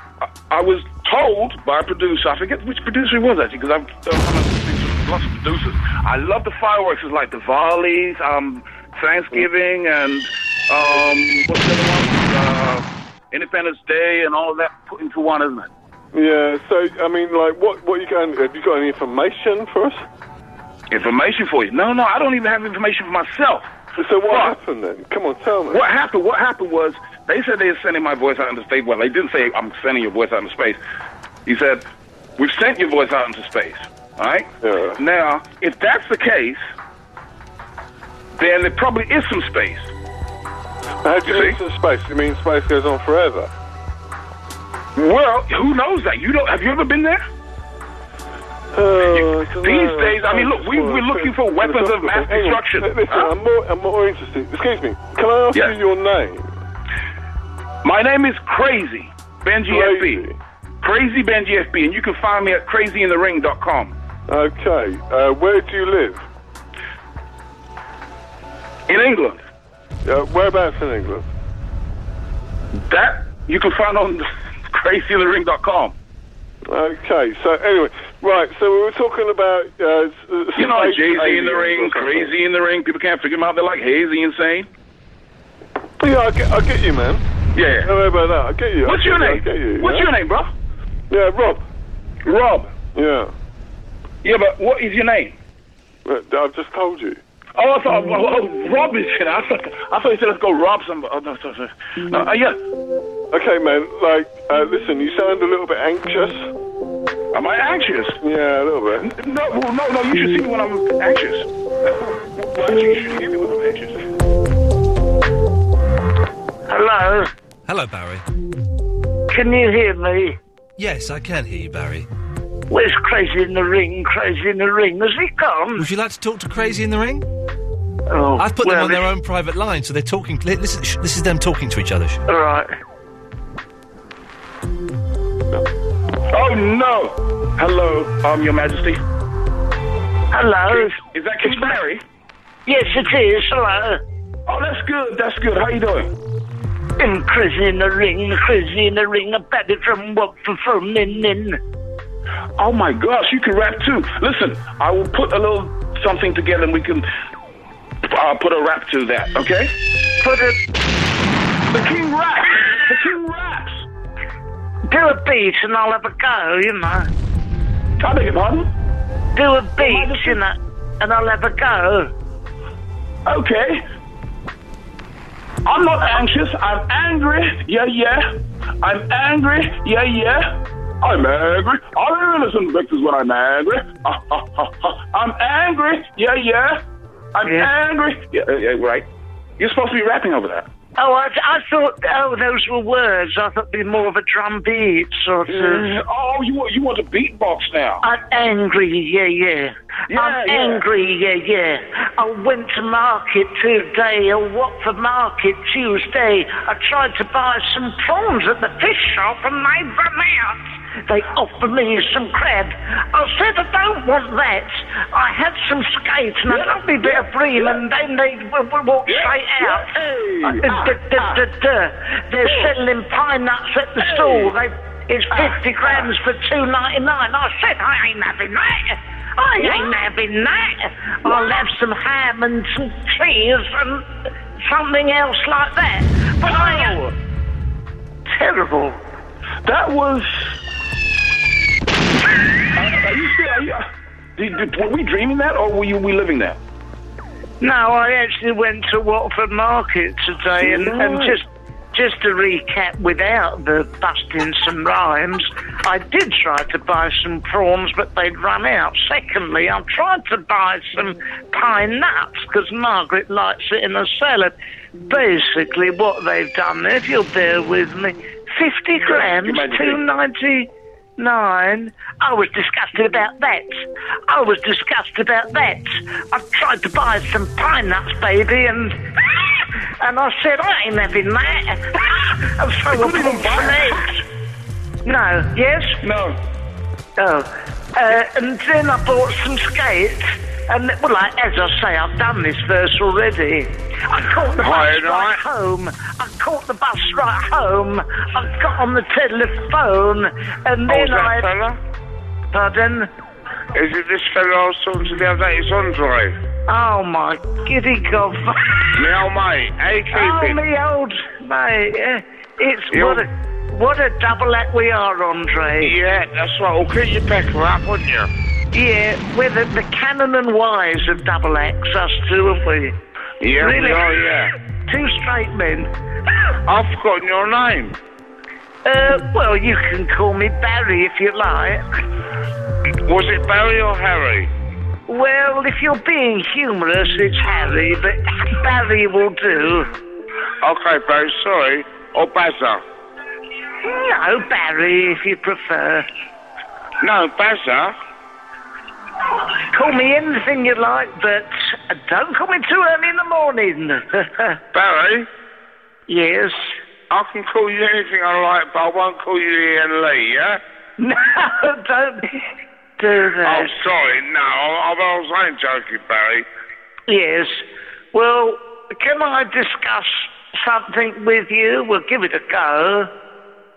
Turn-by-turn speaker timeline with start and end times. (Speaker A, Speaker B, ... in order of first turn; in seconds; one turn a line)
Speaker A: 0.5-15.7
Speaker B: 16.1-20.1
Speaker A: 20.9-23.7
Speaker B: 24.0-25.8
Speaker A: 24.3-24.6
Speaker A: 25.7-30.8
Speaker A: 31.5-31.8
Speaker A: 32.4-36.6
Speaker B: 34.6-35.0
Speaker A: 38.4-39.9
Speaker B: 41.0-43.5
Speaker A: 41.2-41.6
Speaker A: 45.0-47.2
Speaker B: 48.7-56.5
Speaker A: 49.0-53.4
Speaker A: 57.8-60.2
Speaker B: 59.7-60.4
Speaker A: 60.8-64.0
Speaker B: 64.3-66.2
Speaker A: 68.9-69.4
Speaker B: 70.0-71.3
Speaker A: 72.8-75.9
Speaker B: 76.7-82.3
Speaker A: 80.6-84.7
Speaker B: 86.0-87.2
Speaker A: 87.5-87.9
Speaker B: 87.8-90.1
Speaker A: 88.8-90.5
Speaker B: 91.1-91.6
Speaker A: 92.2-92.7
Speaker B: 93.0-93.3
Speaker A: 94.2-95.4
Speaker B: 96.0-97.2
Speaker A: 97.6-102.6
Speaker B: 103.3-106.5
Speaker A: 107.3-108.2
Speaker B: 108.2-109.1
Speaker A: 109.0-111.5
Speaker A: 112.3-114.0
Speaker C: 116.7-117.3
Speaker D: 117.7-118.2
Speaker C: 119.3-120.4
Speaker D: 120.8-122.1
Speaker C: 122.7-125.8
Speaker D: 125.8-127.3
Speaker C: 128.1-129.1
Speaker D: 128.4-132.2
Speaker C: 132.3-132.7
Speaker A: 136.3-139.0
Speaker C: 140.3-141.8
Speaker A: 140.7-142.0
Speaker C: 142.7-144.0
Speaker A: 144.5-146.1
Speaker C: 147.0-151.6
Speaker A: 152.6-157.1
Speaker A: 158.1-159.7
Speaker C: 160.2-160.6
Speaker A: 161.7-163.8
Speaker C: 164.9-167.1
Speaker A: 168.0-168.7
Speaker C: 169.4-172.1
Speaker A: 169.8-170.4
Speaker A: 173.3-173.8
Speaker A: 175.7-178.3
Speaker A: 178.8-186.8
Speaker A: 187.3-189.1
Speaker A: 189.6-190.7
Speaker C: 191.0-195.9
Speaker A: 195.5-198.1
Speaker C: 198.0-219.9
Speaker A: 200.1-200.9
Speaker A: 216.5-217.8
Speaker A: 219.1-221.3
Speaker C: 220.4-234.1
Speaker A: 222.4-222.7
Speaker A: 224.1-224.5
Speaker C: 234.6-237.1
Speaker A: 236.5-236.9
Speaker C: 238.3-239.0
Speaker A: 239.7-240.5
Speaker A: 242.8-243.8
Speaker A: 244.4-246.6
Speaker C: 247.6-264.5
Speaker A: 250.7-251.3
Speaker C: 265.1-273.7
Speaker A: 269.1-270.0
Speaker C: 274.3-284.2
Speaker A: 282.9-284.2
Speaker C: 285.1-286.0
Speaker A: 286.0-286.4
Speaker C: 287.2-301.5
Speaker E: 294.6-295.4
Speaker E: 300.9-301.8
Speaker C: 302.5-303.1
Speaker E: 303.8-306.4
Speaker C: 306.7-308.9
Speaker E: 309.0-310.6
Speaker C: 310.1-315.9
Speaker E: 312.9-313.2
Speaker E: 315.8-318.3
Speaker C: 318.7-322.9
Speaker E: 323.4-324.5
Speaker C: 323.6-324.2
Speaker C: 324.9-325.9
Speaker E: 326.7-328.0
Speaker C: 328.9-331.8
Speaker E: 333.1-334.5
Speaker C: 335.1-339.9
Speaker E: 340.6-342.8
Speaker C: 343.8-346.1
Speaker E: 347.0-348.0
Speaker C: 349.7-354.6
Speaker E: 354.7-355.3
Speaker C: 356.1-356.7
Speaker E: 357.1-360.6
Speaker C: 361.0-362.2
Speaker C: 363.0-363.8
Speaker E: 363.4-366.5
Speaker C: 367.1-373.1